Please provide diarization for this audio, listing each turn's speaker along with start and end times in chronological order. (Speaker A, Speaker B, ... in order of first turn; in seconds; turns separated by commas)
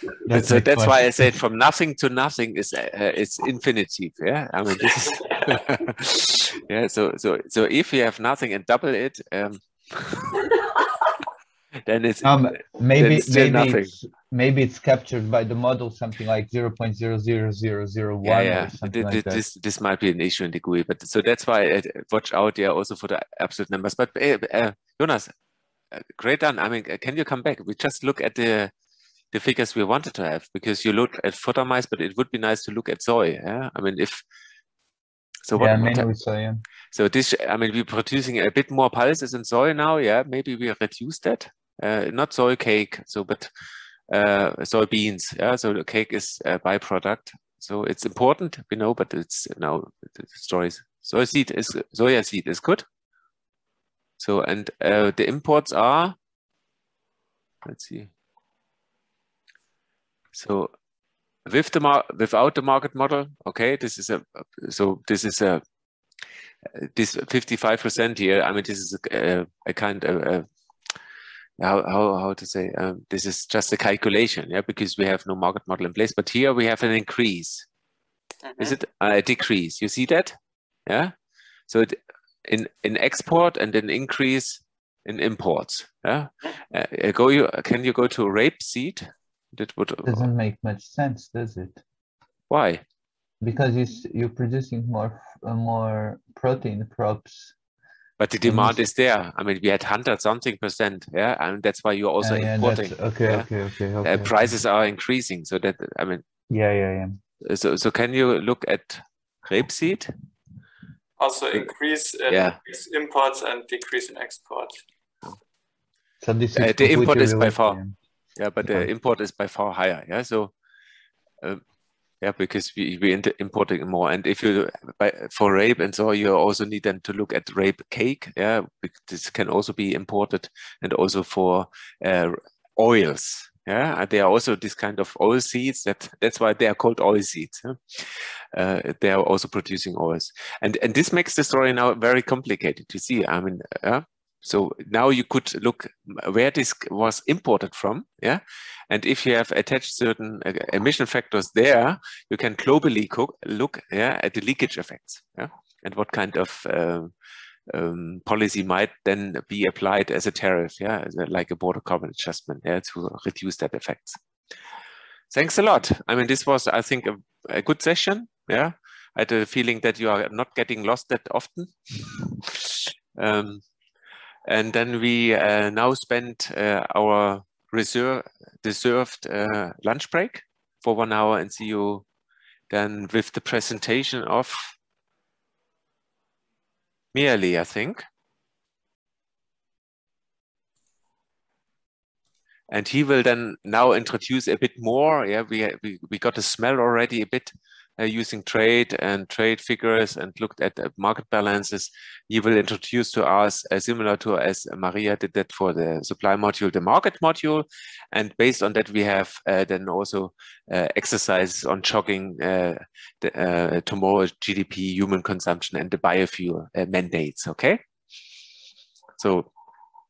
Speaker A: 0.2-1.3, Speaker B: 0.3-10.4, Speaker B: 11.9-12.4, Speaker A: 12.2-19.4, Speaker B: 12.9-13.9, Speaker B: 18.2-25.3, Speaker B: 25.9-28.7, Speaker B: 29.3-34.2, Speaker B: 35.5-36.1, Speaker A: 35.5-36.6, Speaker B: 36.9-43.5, Speaker B: 44.1-52.8, Speaker B: 54.2-56.1, Speaker B: 57.6-58.1, Speaker B: 60.3-60.7, Speaker B: 61.5-65.6, Speaker B: 66.7-70.5, Speaker B: 71.6-77.7, Speaker C: 78.4-78.8, Speaker B: 78.6-80.3, Speaker B: 80.9-81.1, Speaker B: 81.7-90.3, Speaker A: 90.0-91.8, Speaker B: 92.5-92.8, Speaker A: 93.4-97.5, Speaker B: 98.2-103.5, Speaker A: 98.4-98.8, Speaker A: 102.2-104.5, Speaker B: 104.0-106.2, Speaker A: 106.5-107.2, Speaker B: 107.4-110.1, Speaker C: 111.2-114.8, Speaker B: 112.3-112.6, Speaker A: 116.2-118.0, Speaker B: 116.5-117.8, Speaker B: 118.4-120.5, Speaker B: 122.2-157.1, Speaker B: 157.7-164.2, Speaker B: 165.3-173.6, Speaker B: 174.5-182.0, Speaker B: 182.7-184.7, Speaker B: 187.1-188.0, Speaker B: 192.7-217.8, Speaker B: 219.2-219.5